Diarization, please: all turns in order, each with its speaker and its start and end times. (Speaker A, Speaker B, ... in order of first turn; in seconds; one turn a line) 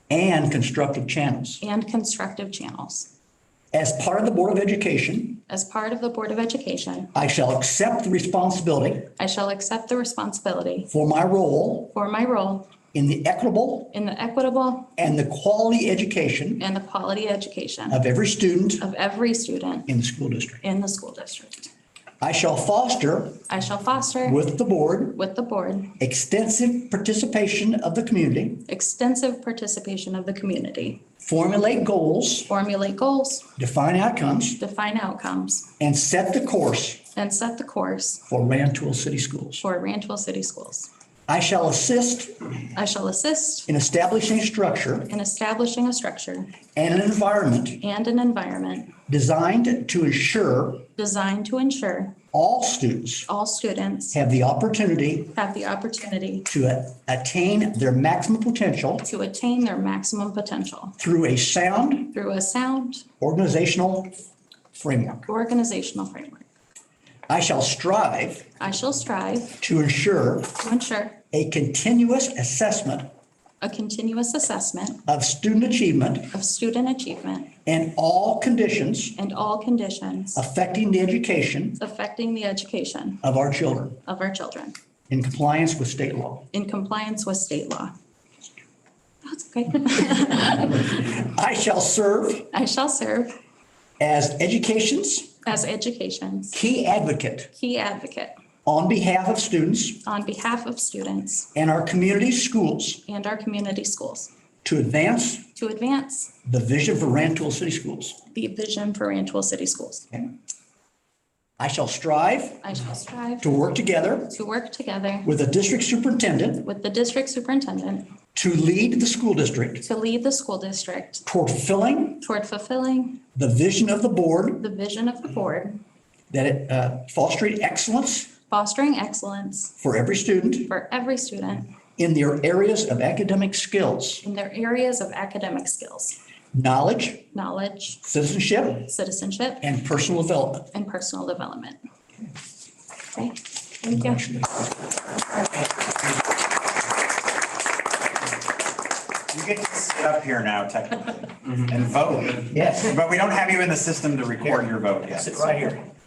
Speaker A: 0.1-1.6
Speaker B: 1.6-3.1
Speaker A: 3.7-5.4
Speaker B: 5.5-7.1
Speaker A: 7.1-9.1
Speaker B: 9.2-10.9
Speaker A: 10.9-11.9
Speaker B: 11.9-12.7
Speaker A: 12.9-13.9
Speaker B: 13.9-15.0
Speaker A: 15.0-16.6
Speaker B: 16.6-18.0
Speaker A: 17.9-18.9
Speaker B: 18.8-19.9
Speaker A: 19.9-20.6
Speaker B: 20.6-21.7
Speaker A: 22.2-23.4
Speaker B: 23.5-24.4
Speaker A: 24.2-25.2
Speaker B: 25.1-26.0
Speaker A: 26.0-28.7
Speaker B: 28.7-31.0
Speaker A: 31.2-32.5
Speaker B: 32.5-33.5
Speaker A: 33.6-34.6
Speaker B: 34.6-35.7
Speaker A: 35.8-37.0
Speaker B: 37.1-38.2
Speaker A: 38.3-39.6
Speaker B: 39.6-40.9
Speaker A: 41.3-42.5
Speaker B: 42.8-43.7
Speaker A: 43.7-45.1
Speaker B: 45.1-46.6
Speaker A: 46.8-47.8
Speaker B: 47.8-49.0
Speaker A: 49.1-50.9
Speaker B: 51.0-52.2
Speaker A: 52.3-53.3
Speaker B: 53.3-54.2
Speaker A: 54.1-55.3
Speaker B: 55.3-56.5
Speaker A: 56.5-59.1
Speaker B: 59.0-61.0
Speaker A: 61.0-62.1
Speaker B: 62.1-63.1
Speaker A: 63.2-64.2
Speaker A: 64.7-65.3
Speaker B: 65.3-66.4
Speaker A: 67.3-68.5
Speaker B: 68.6-69.6
Speaker A: 69.6-70.5
Speaker B: 70.5-71.2
Speaker A: 71.3-73.1
Speaker B: 73.6-75.0
Speaker A: 75.1-76.3
Speaker B: 76.3-77.5
Speaker A: 77.7-79.2
Speaker B: 79.2-80.4
Speaker A: 80.3-81.8
Speaker B: 81.8-83.2
Speaker A: 83.2-84.0
Speaker B: 84.0-84.8
Speaker A: 85.1-86.5
Speaker B: 86.5-88.0
Speaker B: 89.2-91.0
Speaker A: 90.5-92.5
Speaker B: 92.5-93.4
Speaker A: 94.0-95.4
Speaker B: 95.5-96.6
Speaker A: 96.5-97.5
Speaker B: 97.5-98.4
Speaker A: 98.7-100.0
Speaker B: 100.0-101.5
Speaker A: 101.5-103.0
Speaker B: 103.1-104.3
Speaker A: 104.6-105.5
Speaker B: 105.5-106.3
Speaker A: 106.5-108.2
Speaker B: 108.3-110.1
Speaker A: 111.6-112.9
Speaker B: 112.6-113.5
Speaker A: 113.4-114.3
Speaker B: 114.3-115.3
Speaker A: 115.2-116.7
Speaker B: 116.6-118.1
Speaker A: 118.3-119.8
Speaker B: 119.8-121.3
Speaker A: 121.3-122.2
Speaker B: 122.2-123.2
Speaker A: 123.3-124.7
Speaker B: 124.6-125.8
Speaker A: 126.3-128.3
Speaker B: 128.5-129.7
Speaker A: 129.8-130.7
Speaker B: 130.7-131.7
Speaker A: 132.0-134.2
Speaker B: 134.2-136.2
Speaker A: 136.5-137.3
Speaker B: 137.3-138.0
Speaker A: 138.0-138.9
Speaker B: 138.8-139.6
Speaker A: 139.6-140.7
Speaker B: 140.7-141.8
Speaker B: 143.2-144.3
Speaker A: 143.9-144.7
Speaker C: 149.3-155.7
Speaker A: 152.5-152.9
Speaker A: 155.2-155.8